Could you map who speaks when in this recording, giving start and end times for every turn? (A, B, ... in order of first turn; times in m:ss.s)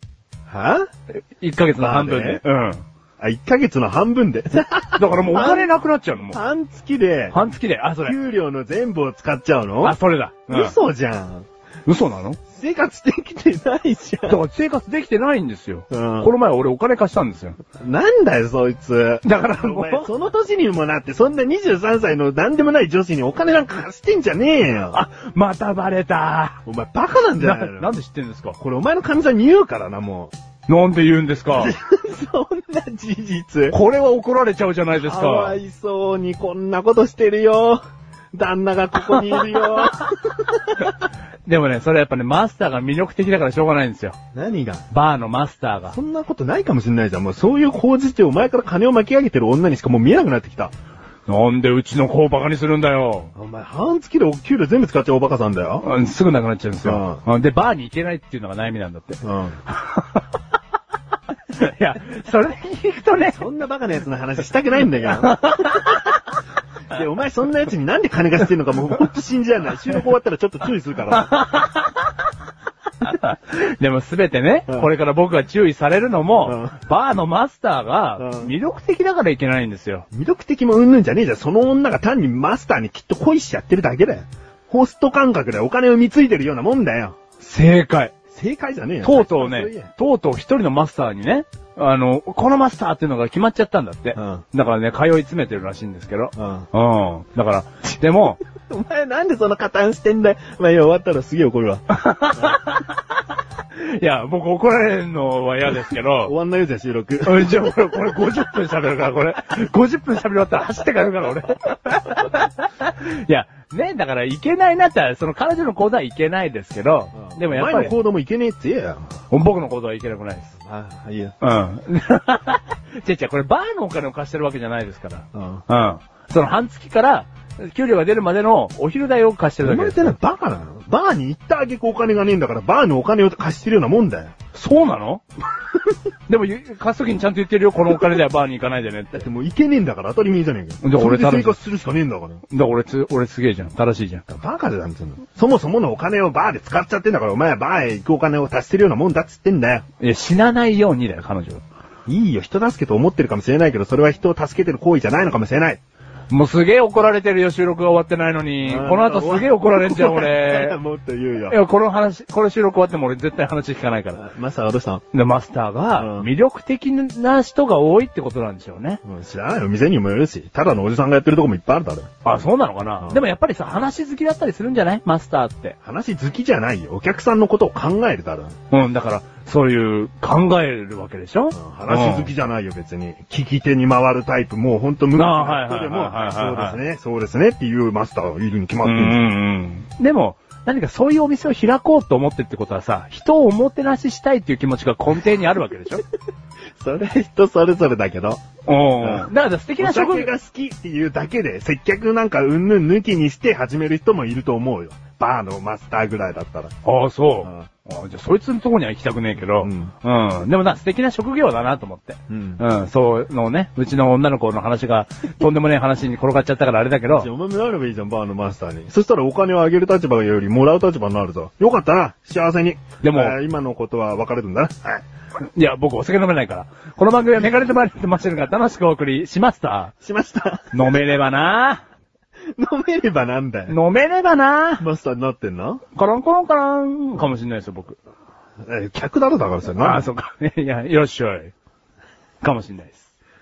0:00.5-0:00.8 A
0:01.4-0:02.8 B
0:01.8-0:02.4 A
0:03.2-0:05.7 A
0:05.0-0:06.4 B
0:06.3-0:07.4 A
0:07.3-0:08.2 B
0:08.0-0:10.0 A
0:09.8-0:10.7 B
0:10.5-0:11.5 A
0:11.8-0:12.4 B
0:12.5-0:14.4 A
0:14.3-0:17.6 B
0:15.9-0:16.3 A
0:17.8-0:25.0 A
0:19.2-0:20.1 B
0:24.9-0:26.6 B
0:26.6-0:27.9 A
0:27.4-0:28.6 B
0:28.6-0:30.3 A
0:30.7-0:31.7 B
0:31.5-0:33.8 A
0:33.7-0:35.6 B
0:34.9-0:37.8 A
0:38.3-0:40.9 A
0:39.2-0:39.9 B
0:41.4-0:44.2 B
0:44.3-0:44.9 A
0:44.9-0:46.0 B
0:45.9-0:50.7 A
0:51.3-0:53.3 B
0:53.3-0:55.8 A
0:55.8-1:00.2 B
0:56.8-0:57.2 A
0:59.2-0:59.6 A
1:01.5-1:03.4 B
1:03.3-1:06.0 A
1:05.1-1:06.2 B
1:06.9-1:11.4 A
1:11.1-1:12.1 B
1:13.0-1:20.0 B
1:16.4-1:16.7 A
1:18.2-1:18.5 A
1:20.1-1:27.2 A
1:27.4-1:28.1 B
1:28.3-1:29.9 A
1:29.0-1:38.4 B
1:34.2-1:34.4 A
1:36.4-1:36.7 A
1:38.6-1:42.6 A
1:41.9-1:43.0 B
1:43.7-1:46.3 B
1:46.2-1:47.7 A
1:47.2-1:57.9 B
1:57.2-1:59.1 A
1:59.3-2:00.5 B
2:00.6-2:01.4 A
2:01.4-2:10.2 B
2:05.3-2:05.6 A
2:09.6-2:14.3 A
2:14.5-2:15.2 B
2:16.3-2:19.2 B
2:19.1-2:22.4 A
2:20.8-2:21.6 B
2:22.5-2:24.2 B
2:24.3-2:29.8 A
2:30.0-2:31.6 B
2:32.1-2:35.8 A
2:36.3-2:40.8 B
2:38.6-2:41.6 A
2:41.5-2:44.2 B
2:44.2-2:45.0 A
2:45.1-2:49.0 B
2:45.9-2:46.3 A
2:49.0-2:52.1 A
2:52.2-2:55.8 B
2:55.8-2:58.5 A
2:58.7-3:02.3 B
3:01.5-3:09.2 A
3:05.1-3:06.8 B
3:08.8-3:16.0 B
3:16.8-3:18.4 A
3:18.6-3:20.3 B
3:19.0-3:26.7 A
3:26.8-3:37.3 B
3:29.6-3:29.9 A
3:32.3-3:32.6 A
3:37.1-3:45.0 A
3:43.0-3:43.4 B
3:45.6-3:49.9 B
3:50.0-3:51.0 A
3:50.7-3:51.8 B
3:52.6-3:53.7 A
3:53.7-3:54.8 B
3:54.8-3:55.8 A
3:55.9-3:58.0 B
3:58.6-4:00.0 A
3:59.8-4:01.5 B
4:02.4-4:03.1 B